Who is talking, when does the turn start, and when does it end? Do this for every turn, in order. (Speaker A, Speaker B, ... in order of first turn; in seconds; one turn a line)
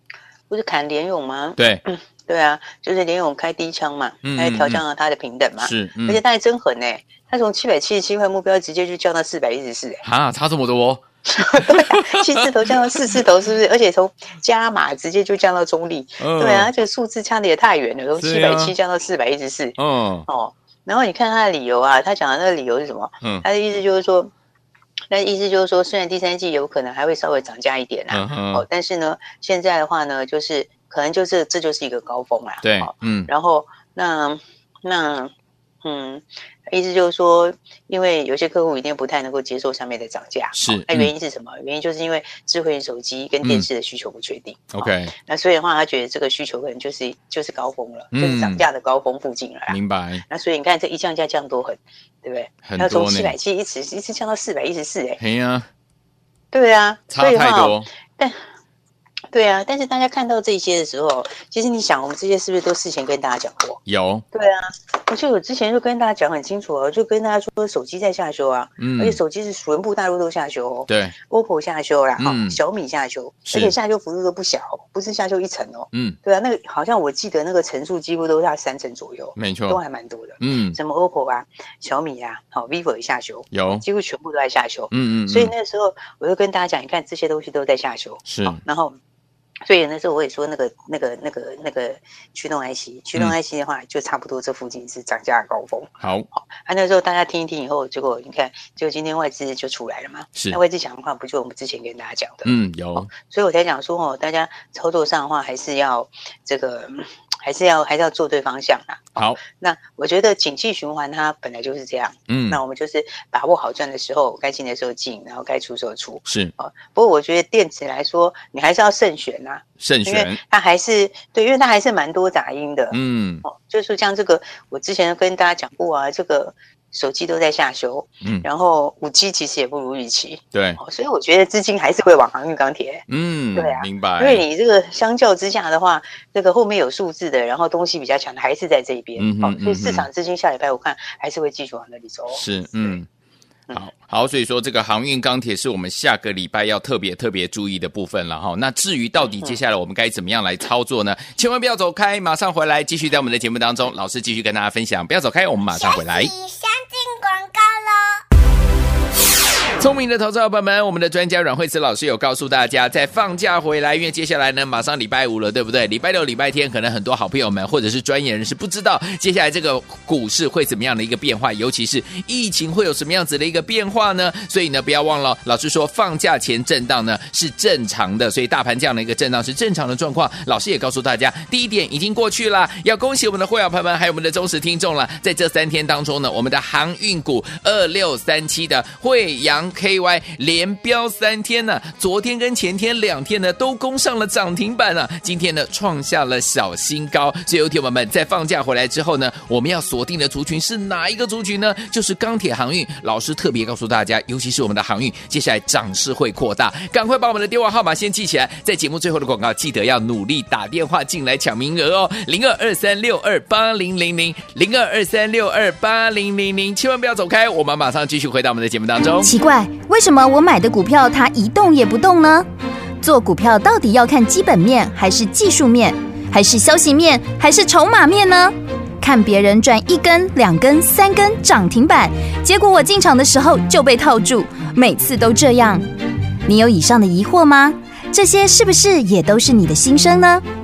Speaker A: 0.5-10.0
Speaker B: 1.6-1.8
Speaker B: 4.2-4.8
Speaker B: 5.6-6.2
Speaker B: 10.0-11.0
Speaker A: 11.3-19.8
Speaker B: 11.6-12.3
Speaker B: 16.2-16.7
Speaker B: 18.2-18.7
Speaker B: 19.8-20.2
Speaker A: 20.3-24.3
Speaker A: 25.1-35.3
Speaker B: 28.1-28.6
Speaker B: 32.6-33.3
Speaker A: 35.8-55.2
Speaker B: 40.5-41.1
Speaker B: 44.7-45.1
Speaker B: 48.1-48.6
Speaker B: 49.7-50.2
Speaker B: 52.6-53.3
Speaker B: 55.2-55.7
Speaker A: 56.5-58.4
Speaker B: 57.1-57.9
Speaker A: 59.3-63.8
Speaker B: 63.9-64.2
Speaker A: 64.3-89.0
Speaker B: 68.8-69.2
Speaker B: 70.9-71.1
Speaker B: 72.2-72.6
Speaker B: 73.5-73.7
Speaker B: 75.9-76.2
Speaker B: 79.4-79.8
Speaker B: 80.4-80.8
Speaker B: 83.5-83.8
Speaker B: 84.9-85.5
Speaker B: 88.3-88.6
Speaker A: 89.7-143.0
Speaker B: 96.0-96.3
Speaker B: 102.4-103.1
Speaker B: 112.3-112.6
Speaker B: 116.3-116.5
Speaker B: 119.8-120.4
Speaker B: 122.9-123.4
Speaker B: 130.5-130.8
Speaker B: 133.1-134.4
Speaker B: 139.2-140.1
Speaker B: 142.3-143.1
Speaker B: 143.7-156.3
Speaker C: 155.7-158.2
Speaker B: 159.8-219.3
Speaker D: 219.2-222.4
Speaker D: 223.0-235.8
Speaker D: 236.4-240.4